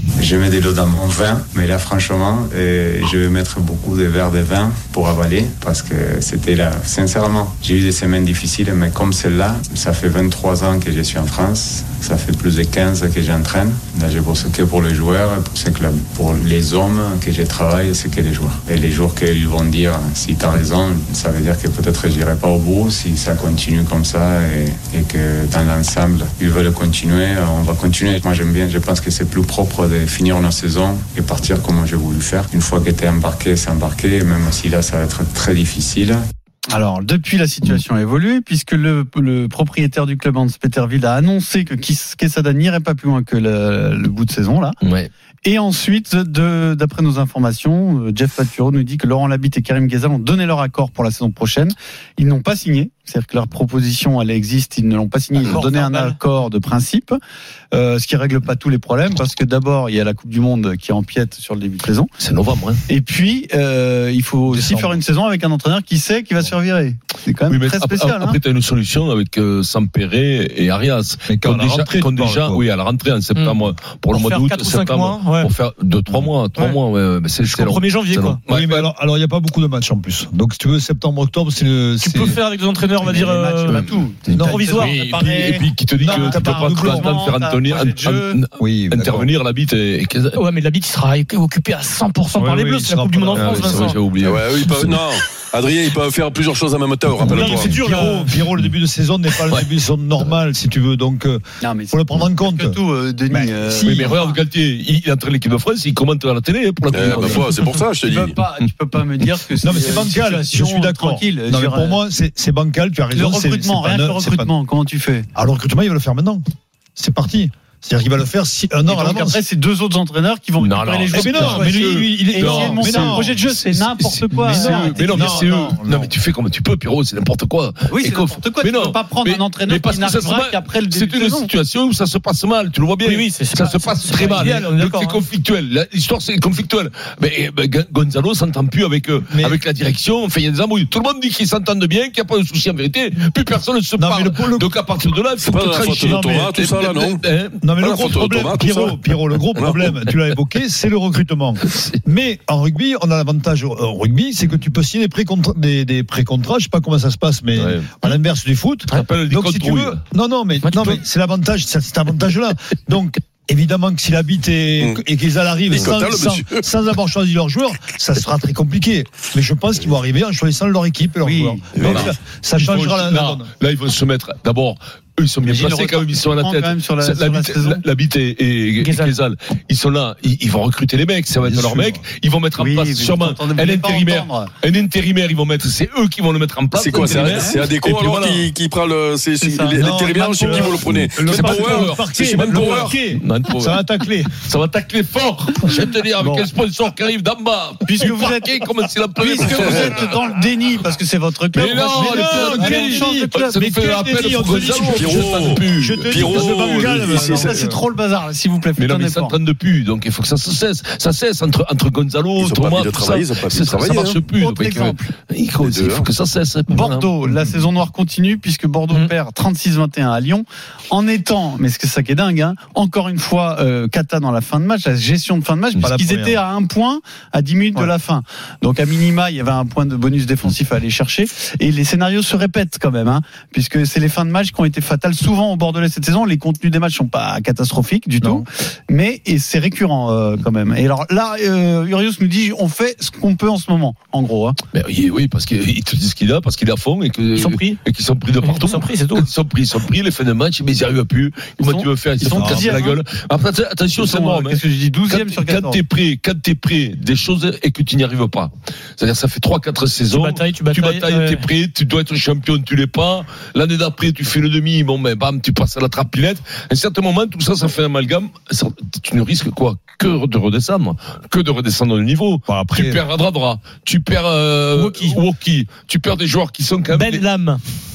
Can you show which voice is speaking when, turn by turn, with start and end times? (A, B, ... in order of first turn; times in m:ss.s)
0:00.2-0:36.2 A
0:36.7-0:44.8 B
0:44.8-0:45.1 C
0:45.4-0:57.2 B
0:55.4-0:56.2 D
0:57.7-1:02.1 B
1:02.2-1:02.8 C
1:02.9-1:08.4 B
1:04.4-1:05.0 E
1:07.5-1:18.9 C
1:11.2-1:12.6 E
1:13.4-1:15.5 D
1:17.4-1:18.4 D
1:18.5-1:22.4 E
1:22.0-1:25.0 D
1:23.0-1:24.9 B
1:23.7-1:30.4 C
1:24.3-1:27.1 E
1:26.0-1:28.4 B
1:28.6-1:29.3 E
1:30.3-1:34.0 D
1:32.4-1:33.9 E
1:33.4-1:35.0 C
1:34.2-1:37.9 F
1:37.2-1:44.1 E
1:37.2-1:38.4 D
1:41.6-1:44.4 B
1:43.8-1:47.8 C
1:46.9-1:48.4 F
1:47.0-1:47.4 E
1:48.0-1:52.0 B
1:49.6-1:54.5 E
1:53.1-1:55.3 B
1:55.4-1:56.4 E
1:57.0-1:59.4 E
1:58.9-2:05.7 B
2:00.6-2:27.6 C
2:01.1-2:03.5 E
2:04.3-2:06.1 E
2:07.9-2:11.5 B
2:13.0-2:15.2 D
2:19.3-2:19.6 E
2:24.0-2:24.7 E
2:25.4-2:27.2 F
2:25.9-2:26.5 E
2:27.6-2:53.5 E
2:27.8-2:29.0 F
2:29.6-2:29.9 F
2:31.7-2:32.0 C
2:37.6-2:38.2 C
2:38.9-2:40.0 C
2:40.6-2:41.0 C
2:45.7-2:46.6 F
2:51.2-2:51.7 B
2:51.8-2:52.1 F
2:51.8-3:08.5 C
2:55.4-2:57.9 B
2:58.8-2:59.1 D
3:01.4-3:02.0 E
3:02.6-3:04.5 B
3:06.8-3:13.1 F
3:07.2-3:07.6 B
3:09.4-3:09.8 B
3:09.8-3:14.4 E
3:10.8-3:13.8 C
3:14.3-3:20.1 C
3:15.6-3:16.5 E
3:17.8-3:18.6 B
3:19.2-3:23.7 B
3:19.4-3:20.0 F
3:21.5-3:27.0 C
3:21.8-3:27.8 E
3:24.9-3:27.6 F
3:27.1-3:29.4 B
3:28.8-3:37.1 C
3:32.4-3:34.2 F
3:34.4-3:35.1 B
3:35.6-3:36.1 F
3:36.7-4:04.6 B
3:45.8-3:46.4 E
4:04.7-4:37.3 C
4:07.4-4:07.8 D
4:08.4-4:09.3 D
4:11.6-4:13.0 B
4:12.2-4:12.8 E
4:14.0-4:15.8 B
4:20.1-4:21.4 D
4:32.5-4:33.0 E
4:34.8-4:35.2 D
4:36.9-4:37.6 D